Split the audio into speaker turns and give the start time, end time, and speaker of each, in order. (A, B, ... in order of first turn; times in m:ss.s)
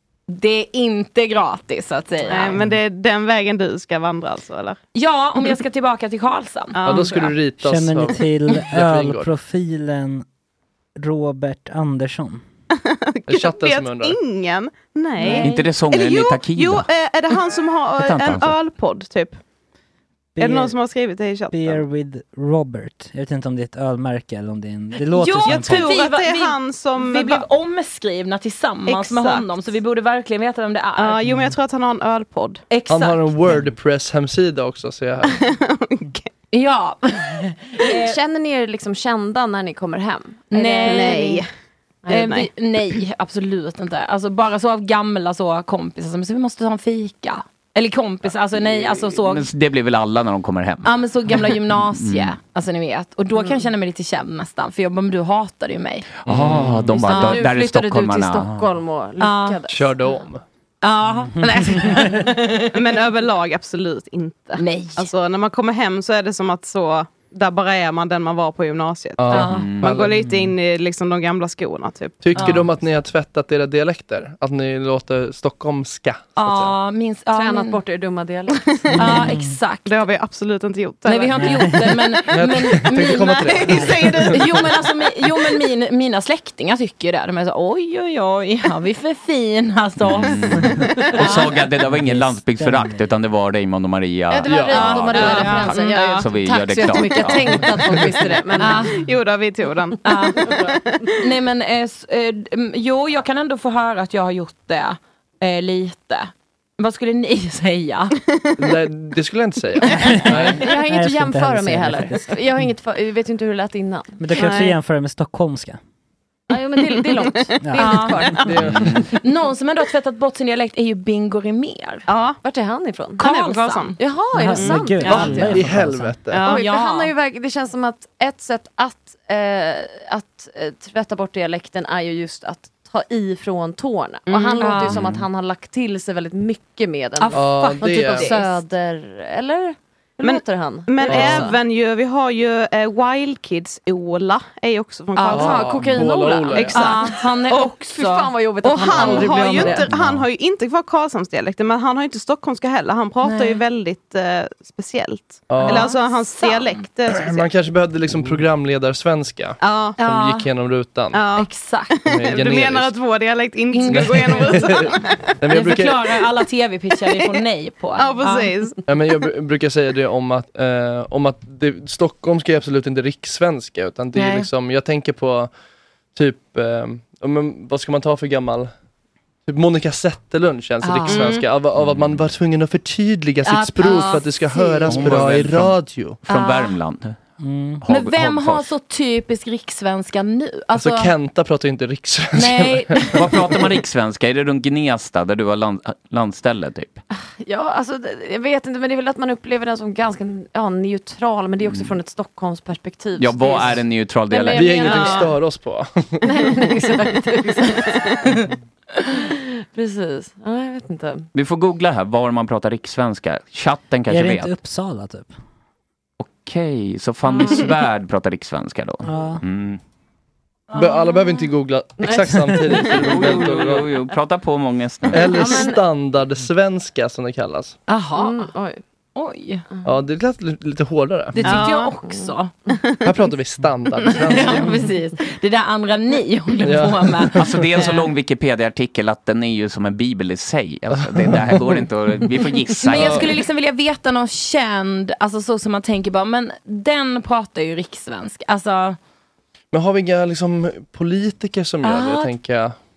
0:00.3-0:02.6 A
0:02.3-0:04.8 B
0:05.0-0:07.0 A
0:06.8-0:07.4 B
0:06.8-0:09.3 C
0:07.6-0:10.2 D
0:11.0-0:12.4 D
0:12.8-0:19.4 B
0:13.3-0:14.2 C
0:15.3-0:15.6 A
0:15.4-0:16.9 E
0:18.0-0:18.6 E
0:20.4-0:20.8 D
0:20.4-0:21.8 B
0:21.5-0:25.9 D
0:25.1-0:31.2 A
0:25.4-0:27.4 B
0:28.9-0:29.5 B
0:31.0-0:32.6 B
0:32.7-0:33.4 A
0:32.9-0:35.4 C
0:35.3-0:36.3 B
0:36.5-0:38.2 A
0:37.8-0:41.4 F
0:40.5-0:41.4 A
0:40.6-0:41.5 B
0:42.1-0:42.5 F
0:42.1-0:49.5 A
0:42.1-0:42.5 B
0:48.7-0:52.4 E
0:50.8-0:56.1 A
0:53.4-0:53.7 F
0:56.2-0:58.7 E
0:56.3-0:56.9 C
0:57.0-1:00.1 F
0:57.1-0:57.4 A
0:59.2-0:59.6 A
0:59.7-1:00.4 C
1:00.8-1:02.6 A
1:01.7-1:12.4 B
1:04.6-1:05.1 A
1:09.2-1:10.3 C
1:09.3-1:09.7 A
1:09.4-1:09.9 E
1:10.2-1:10.5 D
1:12.2-1:16.7 C
1:12.4-1:12.7 A
1:16.4-1:17.8 A
1:17.3-1:19.3 F
1:19.0-1:19.6 D
1:19.0-1:20.0 A
1:19.9-1:22.1 B
1:21.1-1:23.6 A
1:21.4-1:21.8 D
1:22.3-1:24.6 C
1:23.3-1:24.8 B
1:24.3-1:30.7 A
1:30.0-1:37.7 E
1:30.6-1:31.1 D
1:31.8-1:33.1 D
1:34.3-1:39.0 F
1:34.5-1:35.4 C
1:35.0-1:36.0 A
1:35.4-1:36.0 B
1:38.6-1:39.0 A
1:38.9-1:41.2 B
1:40.0-1:40.6 A
1:41.2-1:48.2 A
1:48.6-1:50.6 C
1:49.9-1:52.4 D
1:50.6-1:54.5 F
1:54.2-1:55.8 D
1:54.3-1:54.8 B
1:56.5-1:58.6 F
1:57.0-1:57.6 B
1:57.6-1:58.4 D
1:57.8-1:58.2 A
1:58.4-1:59.1 C
1:58.6-1:59.1 E
1:59.1-2:02.1 A
2:02.1-2:02.4 B
2:02.4-2:03.3 F
2:03.2-2:04.0 A
2:03.2-2:04.0 B
2:04.0-2:05.6 F
2:04.3-2:06.2 D
2:04.6-2:05.4 B
2:05.1-2:06.4 C
2:06.3-2:06.7 B
2:06.4-2:21.6 F
2:06.5-2:07.1 A
2:14.3-2:14.9 B
2:14.6-2:15.0 A
2:14.9-2:15.2 E
2:17.2-2:18.6 A
2:17.3-2:18.3 C
2:20.2-2:25.8 B
2:21.1-2:21.5 C
2:25.2-2:25.6 A
2:25.2-2:29.9 F
2:25.3-2:26.8 C
2:26.5-2:29.9 A
2:26.5-2:27.6 B
2:28.8-2:37.5 B
2:29.9-2:30.2 E
2:33.2-2:33.6 A
2:35.5-2:35.9 C
2:35.6-2:36.9 A
2:37.1-2:41.2 C
2:39.6-2:40.0 B
2:40.0-2:40.5 A
2:41.1-2:45.4 B
2:41.4-2:42.0 A
2:42.1-2:43.0 C
2:43.7-2:44.9 A
2:43.8-2:46.2 C
2:45.5-2:48.5 A
2:48.0-2:48.8 B
2:48.9-2:55.5 C
2:54.1-2:54.5 A
2:56.1-2:58.7 C
2:59.5-3:06.2 C
3:00.8-3:01.4 A
3:01.1-3:01.4 B
3:01.8-3:02.2 E
3:03.4-3:05.1 A
3:04.9-3:07.2 E
3:06.3-3:06.7 A
3:07.4-3:07.8 D
3:07.8-3:08.7 E
3:07.9-3:11.1 A
3:10.8-3:13.3 C
3:12.3-3:13.2 A
3:13.1-3:17.0 E
3:17.1-3:25.4 F
3:21.7-3:21.9 E
3:23.2-3:25.0 E
3:24.6-3:26.2 C
3:26.2-3:28.3 F
3:29.1-3:31.3 F
3:31.3-3:34.5 E
3:34.1-3:35.4 D
3:36.2-3:39.8 E
3:39.0-3:39.4 D
3:40.7-3:41.3 A
3:40.8-3:43.9 C
3:42.0-3:43.1 F
3:42.8-3:45.4 E
3:45.1-3:47.8 C
3:45.2-3:45.8 F
3:47.9-3:48.5 A
3:47.9-3:48.8 F
3:49.1-3:49.7 A
3:49.8-3:51.6 C
3:51.4-3:52.5 A
3:51.4-3:52.0 B
3:51.8-3:52.4 F
3:53.0-3:54.8 C
3:54.1-3:58.0 A
3:56.6-3:57.4 C
3:57.4-4:03.3 E
4:01.2-4:01.8 C
4:02.8-4:09.0 A
4:02.9-4:03.3 C
4:09.7-4:12.8 C
4:11.8-4:12.3 A